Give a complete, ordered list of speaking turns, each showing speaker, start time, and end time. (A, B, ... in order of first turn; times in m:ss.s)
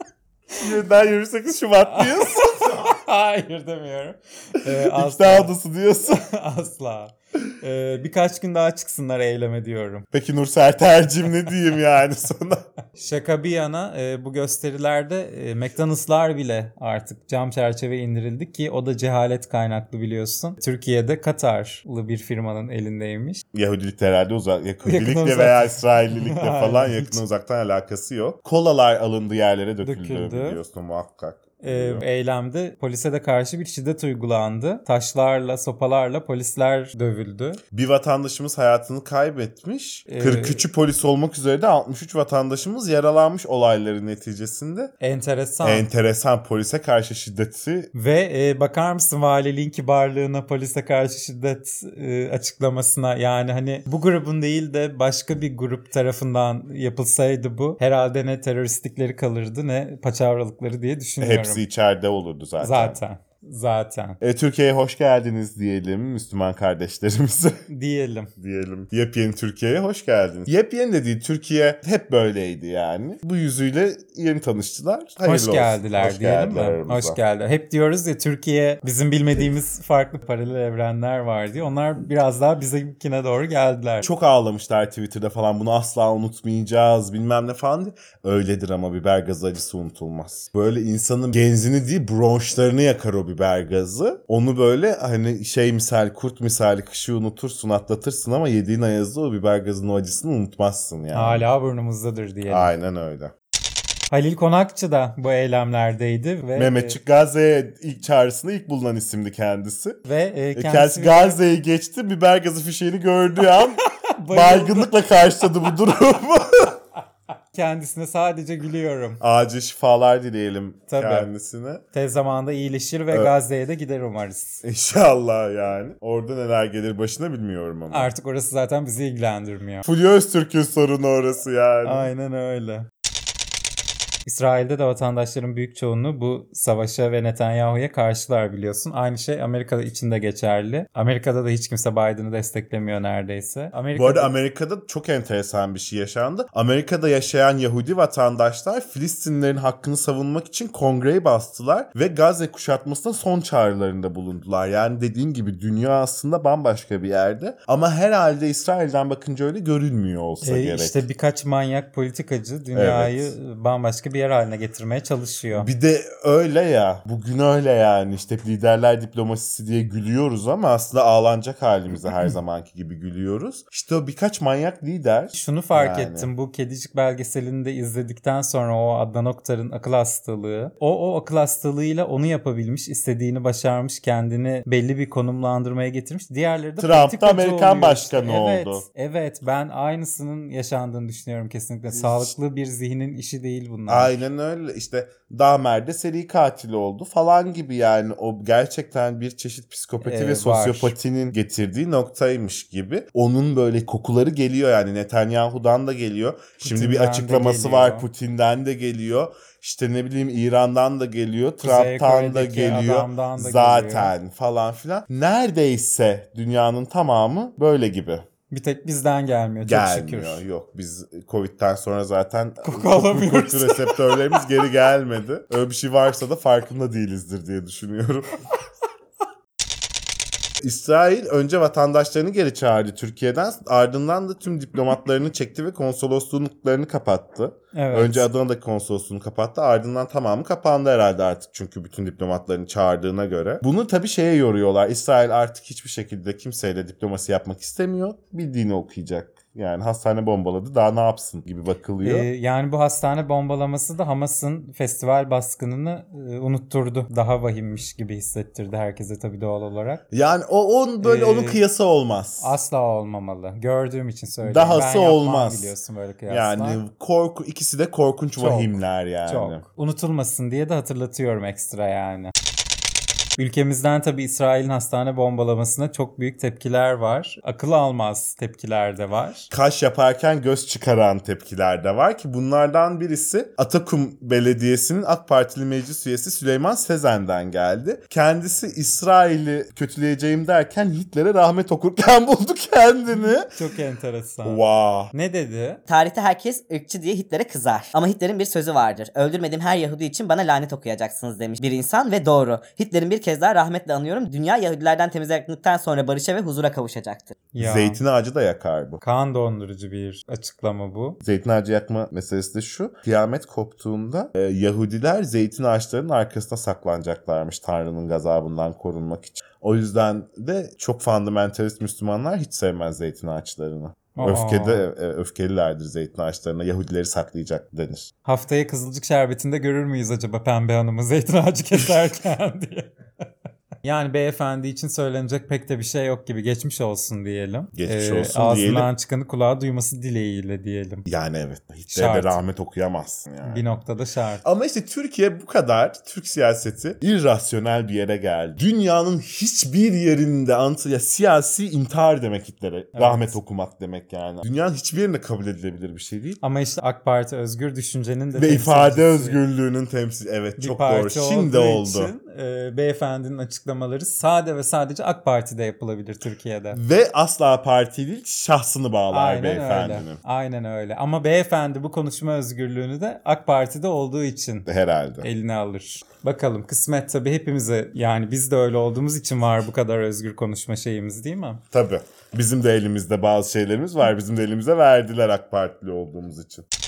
0:00.6-0:02.8 A
0:01.9-0:05.5 B
0:04.7-0:06.2 A
0:06.1-0:10.1 B
0:10.1-0:12.6 A
0:13.0-0:23.4 B
0:23.5-0:32.0 A
0:24.8-0:27.2 B
0:29.8-0:30.6 B
0:31.6-0:37.6 B
0:37.7-0:44.9 A
0:40.1-0:40.7 B
0:45.0-0:45.9 B
0:45.6-0:47.9 A
0:47.9-1:01.6 B
1:01.2-1:03.0 A
1:02.6-1:04.2 B
1:04.2-1:07.6 A
1:07.7-1:08.3 B
1:08.4-1:17.2 A
1:15.2-1:24.1 B
1:24.0-1:41.5 A
1:41.1-1:42.7 B
1:42.5-1:43.3 A
1:44.1-1:47.0 B
1:46.6-1:50.0 A
1:50.0-1:51.4 B
1:50.6-1:56.8 A
1:53.8-1:54.9 B
1:57.5-1:59.2 B
1:59.2-2:01.8 A
2:00.9-2:01.3 B
2:01.9-2:04.6 B
2:04.6-2:08.1 A
2:07.9-2:09.9 B
2:09.8-2:12.1 A
2:11.8-2:12.9 B
2:14.3-2:24.3 B
2:23.9-2:41.0 A
2:40.4-2:45.7 B
2:42.7-2:43.4 A
2:45.5-2:56.3 A
2:55.3-3:14.2 B
3:06.8-3:08.8 A
3:11.9-3:12.3 A
3:13.9-3:38.3 A
3:20.0-3:21.0 B
3:26.6-3:28.1 B
3:31.6-3:34.1 B
3:38.5-3:40.4 B
3:39.6-3:48.4 A
3:42.6-3:44.5 B
3:50.6-4:12.3 A
3:57.7-3:58.3 B
4:12.0-4:20.0 B
4:20.1-4:22.5 A
4:21.0-4:21.6 B
4:22.4-4:26.8 B
4:24.4-4:25.8 A
4:26.3-4:29.6 A
4:28.4-4:28.7 B
4:29.3-4:32.3 B
4:33.4-4:39.5 B
4:39.5-4:53.5 A
4:53.2-4:54.6 B
4:54.4-4:55.1 A
4:55.1-4:55.8 B
4:55.9-5:07.4 C
5:07.5-5:08.0 B
5:07.6-5:09.0 A
5:09.0-5:11.2 B
5:11.2-5:28.1 A
5:24.2-5:24.8 B
5:28.2-5:32.9 B
5:33.8-5:41.0 B
5:37.8-5:38.9 A
5:41.1-5:43.6 A
5:41.9-5:42.4 B
5:43.4-5:44.4 B
5:44.4-5:56.4 A
5:53.0-5:53.4 B
5:56.4-5:59.4 B
5:58.3-6:02.1 A
6:00.6-6:06.8 B
6:06.7-6:10.2 A
6:09.1-6:14.7 B
6:14.7-6:15.3 A
6:15.2-6:21.6 B
6:21.7-6:26.6 A